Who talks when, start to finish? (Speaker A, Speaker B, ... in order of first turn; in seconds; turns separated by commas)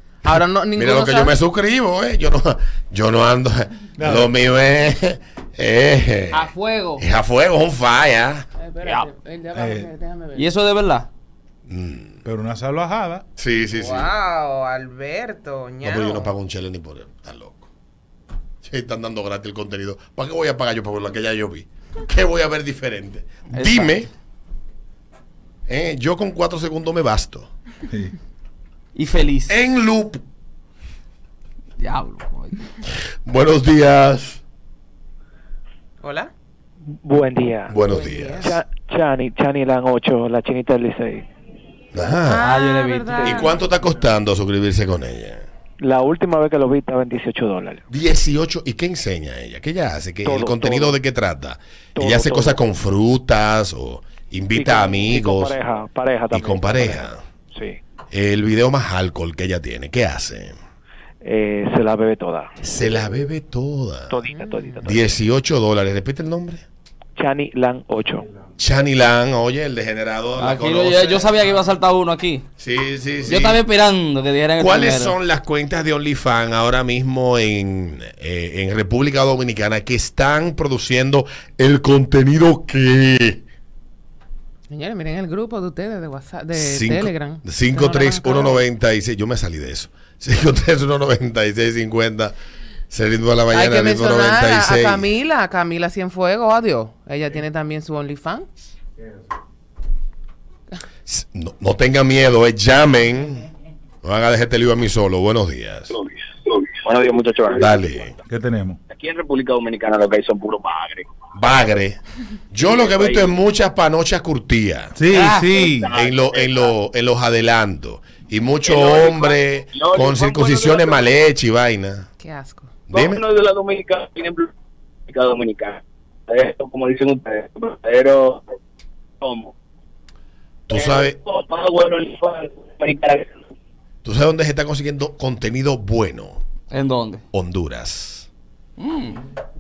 Speaker A: 0.2-1.4, Speaker B: 0.7-8.4, Speaker C: 4.0-4.3, Speaker A: 6.3-7.0, Speaker A: 8.6-10.5, Speaker D: 8.8-9.1, Speaker C: 9.5-9.9, Speaker D: 10.3-11.1, Speaker B: 11.7-12.2, Speaker C: 12.2-13.2, Speaker B: 13.4-14.1, Speaker A: 13.7-16.3, Speaker B: 15.8-17.7, Speaker B: 18.6-24.1, Speaker D: 23.5-24.0, Speaker B: 25.7-27.5, Speaker C: 27.9-28.1, Speaker D: 28.9-29.6, Speaker B: 29.5-30.2, Speaker D: 31.8-32.7, Speaker B: 33.2-34.4, Speaker A: 36.0-36.3, Speaker E: 37.0-37.8, Speaker B: 37.7-38.5, Speaker A: 37.8-38.6, Speaker E: 38.4-41.2, Speaker B: 41.9-42.5, Speaker A: 42.2-43.5, Speaker D: 42.4-43.6, Speaker B: 43.2-45.5, Speaker E: 45.8-47.8, Speaker B: 47.9-55.6, Speaker E: 50.2-51.0, Speaker E: 52.0-52.6, Speaker E: 54.5-57.8, Speaker B: 56.3-57.2, Speaker B: 58.1-60.5, Speaker E: 61.2-62.5, Speaker B: 62.6-64.2, Speaker E: 64.1-65.2, Speaker A: 64.3-64.9, Speaker B: 64.8-66.7, Speaker E: 67.2-68.3, Speaker B: 68.6-71.3, Speaker D: 70.4-72.4, Speaker B: 72.6-73.6, Speaker D: 73.3-75.2, Speaker B: 74.5-83.4, Speaker A: 84.7-88.6, Speaker B: 86.5-92.3, Speaker B: 92.9-95.1, Speaker A: 93.5-98.5, Speaker B: 101.1-103.5, Speaker B: 104.0-106.0, Speaker F: 105.9-107.7, Speaker B: 107.5-108.1, Speaker C: 108.3-108.8, Speaker F: 108.9-111.1, Speaker B: 111.3-114.9, Speaker F: 112.6-113.4, Speaker C: 114.9-115.9, Speaker F: 115.1-116.7, Speaker B: 115.9-122.1, Speaker F: 118.6-121.2, Speaker A: 122.2-122.7, Speaker B: 122.9-123.2, Speaker F: 122.9-124.5, Speaker F: 125.1-128.4, Speaker F: 129.2-129.5, Speaker B: 130.7-131.2, Speaker F: 130.7-133.3, Speaker B: 134.0-136.4, Speaker D: 136.7-137.2, Speaker B: 137.3-138.3, Speaker D: 138.8-139.2